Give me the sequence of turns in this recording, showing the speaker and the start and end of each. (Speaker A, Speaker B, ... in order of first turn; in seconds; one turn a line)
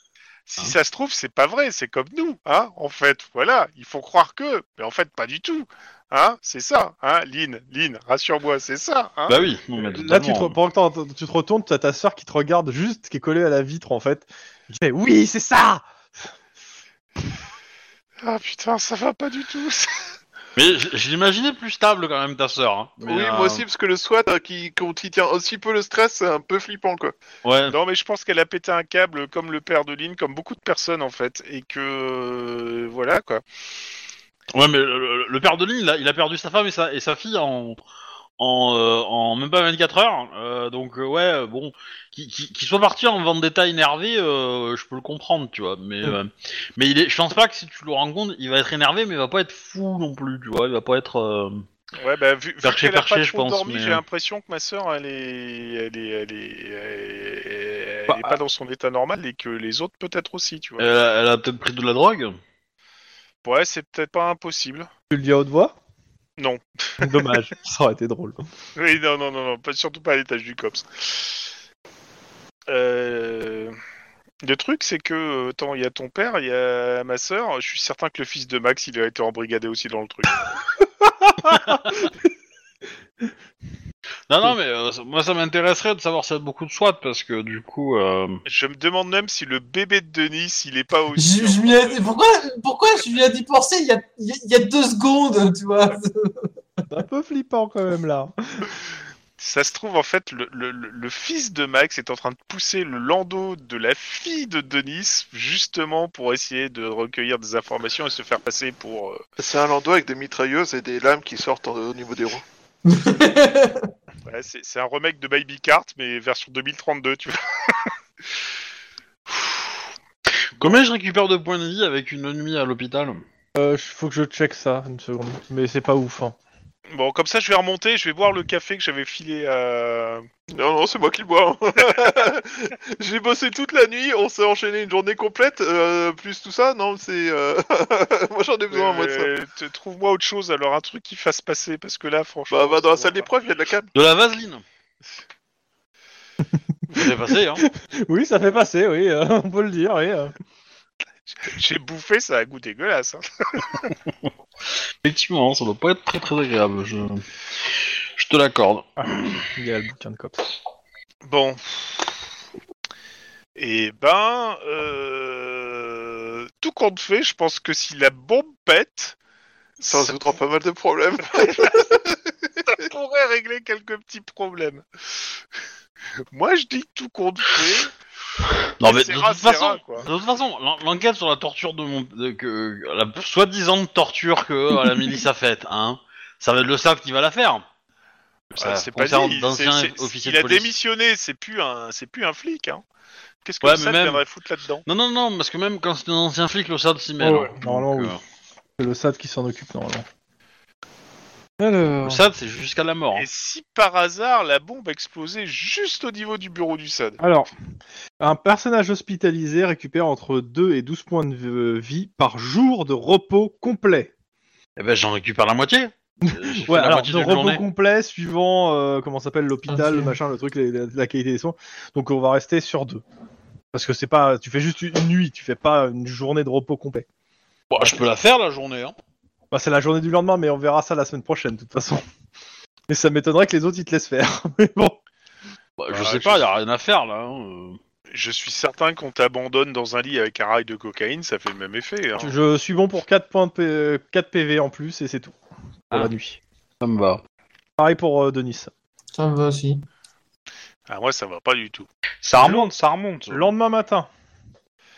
Speaker A: 0.5-9.4
Speaker B: 9.3-10.6
Speaker C: 9.8-15.9
Speaker A: 18.2-20.1
Speaker B: 20.6-23.7
Speaker D: 23.0-27.1
Speaker B: 27.4-27.8
Speaker A: 27.7-33.4
Speaker B: 34.5-37.8
Speaker B: 38.4-51.7
Speaker A: 52.0-60.9
Speaker B: 52.6-54.0
Speaker C: 58.1-58.4
Speaker B: 60.8-62.4
Speaker A: 63.4-64.9
Speaker C: 65.1-65.8
Speaker A: 66.4-67.3
Speaker C: 67.0-68.4
Speaker A: 68.8-71.4
Speaker A: 72.7-73.8
Speaker A: 74.4-80.5
Speaker C: 81.0-82.0
Speaker B: 81.5-81.9
Speaker B: 84.3-88.4
Speaker A: 88.5-92.2
Speaker E: 91.2-96.5
Speaker C: 96.9-98.7
Speaker A: 99.4-109.2
Speaker D: 109.4-112.4
Speaker E: 112.9-113.9
Speaker A: 114.3-117.9
Speaker B: 120.5-123.2
Speaker C: 123.5-126.4
Speaker A: 126.9-130.3
Speaker D: 130.5-139.3
Speaker A: 138.7-143.3
Speaker D: 142.5-143.9
Speaker B: 143.9-144.6
Speaker B: 146.9-147.7
Speaker C: 147.6-150.3
Speaker A: 151.4-153.9
Speaker B: 155.0-157.3
Speaker B: 158.2-159.4
Speaker C: 159.0-160.4
Speaker A: 161.2-162.2
Speaker A: 163.6-169.2
Speaker A: 169.8-170.2
Speaker D: 169.8-172.7
Speaker A: 171.3-171.9
Speaker A: 172.7-174.8
Speaker A: 176.3-177.9
Speaker B: 178.8-187.7
Speaker A: 178.8-180.1
Speaker B: 188.5-190.7
Speaker A: 188.6-192.8
Speaker A: 193.4-194.8
Speaker B: 193.6-194.2
Speaker B: 194.9-198.2
Speaker C: 197.2-198.2
Speaker C: 198.8-200.1
Speaker C: 201.6-202.2
Speaker B: 202.0-203.3
Speaker A: 203.1-207.2
Speaker C: 207.2-207.5
Speaker C: 208.2-214.1
Speaker B: 214.8-217.6
Speaker C: 216.2-223.0
Speaker E: 219.7-220.2
Speaker C: 223.7-227.1
Speaker B: 227.7-228.9
Speaker C: 229.5-232.0
Speaker C: 232.9-235.0
Speaker B: 235.8-237.8
Speaker A: 235.9-236.4
Speaker A: 238.1-242.4
Speaker C: 242.2-245.3
Speaker C: 245.9-246.4
Speaker B: 246.8-247.2
Speaker C: 247.8-248.7
Speaker E: 249.2-249.8
Speaker A: 250.9-251.9
Speaker B: 252.2-253.5
Speaker C: 252.4-252.7
Speaker C: 253.3-254.1